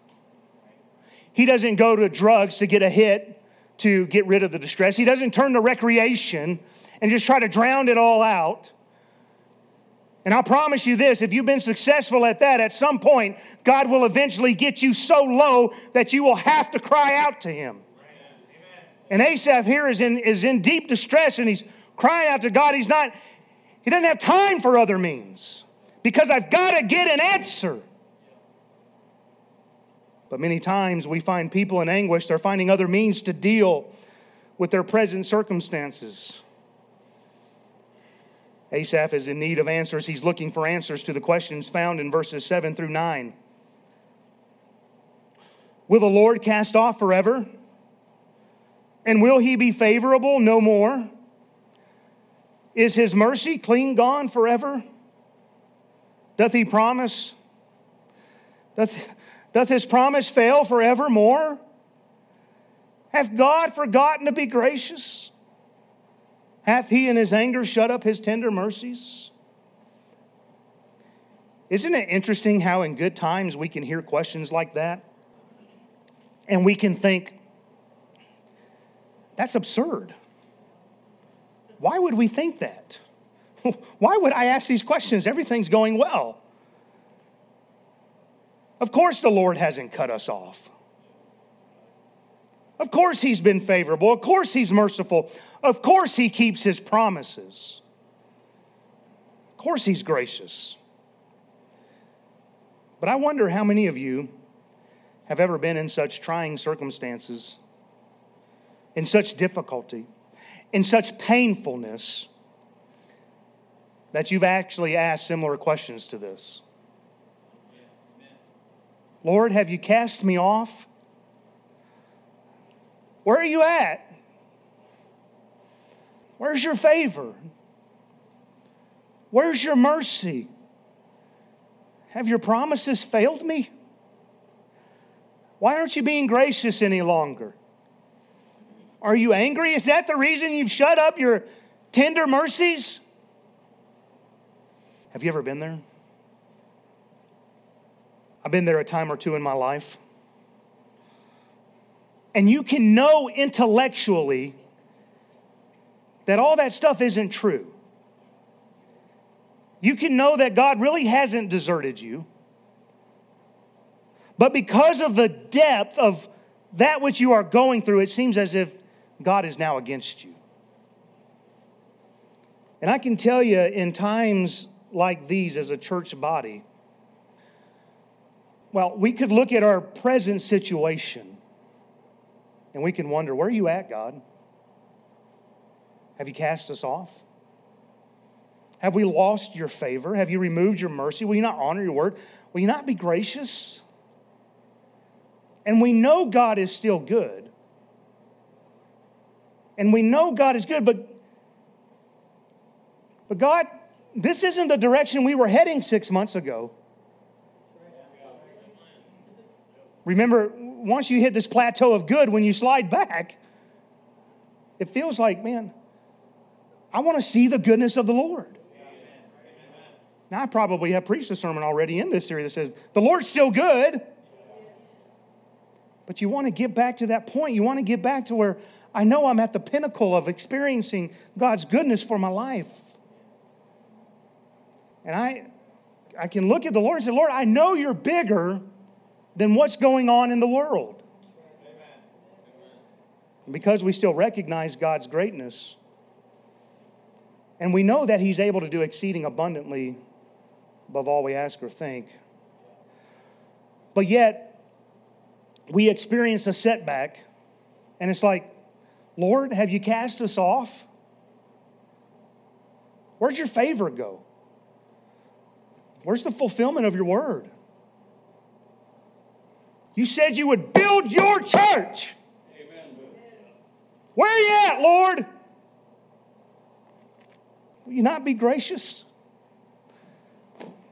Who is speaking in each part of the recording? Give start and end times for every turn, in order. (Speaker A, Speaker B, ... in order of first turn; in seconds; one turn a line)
Speaker A: 1.3-8.7
Speaker A: 10.2-17.8
Speaker A: 19.1-23.1
Speaker A: 23.8-27.8
Speaker A: 30.3-33.9
Speaker A: 34.6-36.4
Speaker A: 38.7-43.3
Speaker A: 45.9-47.5
Speaker A: 49.0-51.1
Speaker A: 52.7-54.8
Speaker A: 56.4-57.3
Speaker A: 58.8-61.6
Speaker A: 63.1-65.3
Speaker A: 66.6-69.3
Speaker A: 71.7-75.0
Speaker A: 76.5-77.4
Speaker A: 79.4-80.1
Speaker A: 81.8-83.0
Speaker A: 83.6-86.4
Speaker A: 88.8-90.7
Speaker A: 92.8-97.8
Speaker A: 99.6-100.8
Speaker A: 103.0-104.3
Speaker A: 105.3-107.6
Speaker A: 109.0-110.1
Speaker A: 110.7-112.3
Speaker A: 114.1-116.6
Speaker A: 119.2-120.9
Speaker A: 123.2-124.1
Speaker A: 126.4-127.4
Speaker A: 129.3-130.5
Speaker A: 132.1-133.7
Speaker A: 135.6-137.6
Speaker A: 139.0-143.0
Speaker A: 145.1-145.8
Speaker A: 148.4-150.0
Speaker A: 152.3-154.6
Speaker A: 156.2-157.7
Speaker A: 159.8-162.3
Speaker A: 164.4-170.4
Speaker A: 172.8-176.6
Speaker A: 178.7-181.4
Speaker A: 182.7-184.2
Speaker A: 186.2-187.2
Speaker A: 188.8-193.8
Speaker A: 195.6-197.5
Speaker A: 199.8-201.2
Speaker A: 203.3-206.7
Speaker A: 210.1-213.4
Speaker A: 214.8-215.7
Speaker A: 216.9-218.6
Speaker A: 220.3-224.0
Speaker A: 226.1-232.9
Speaker A: 235.0-235.4
Speaker A: 236.2-238.6
Speaker A: 239.3-241.0
Speaker A: 243.5-245.8
Speaker A: 247.6-250.0
Speaker A: 250.9-252.1
Speaker A: 253.9-254.6
Speaker A: 255.7-257.2
Speaker A: 258.0-258.5
Speaker A: 259.2-260.9
Speaker A: 263.2-264.2
Speaker A: 266.0-267.5
Speaker A: 269.9-272.1
Speaker A: 274.1-275.3
Speaker A: 277.8-279.1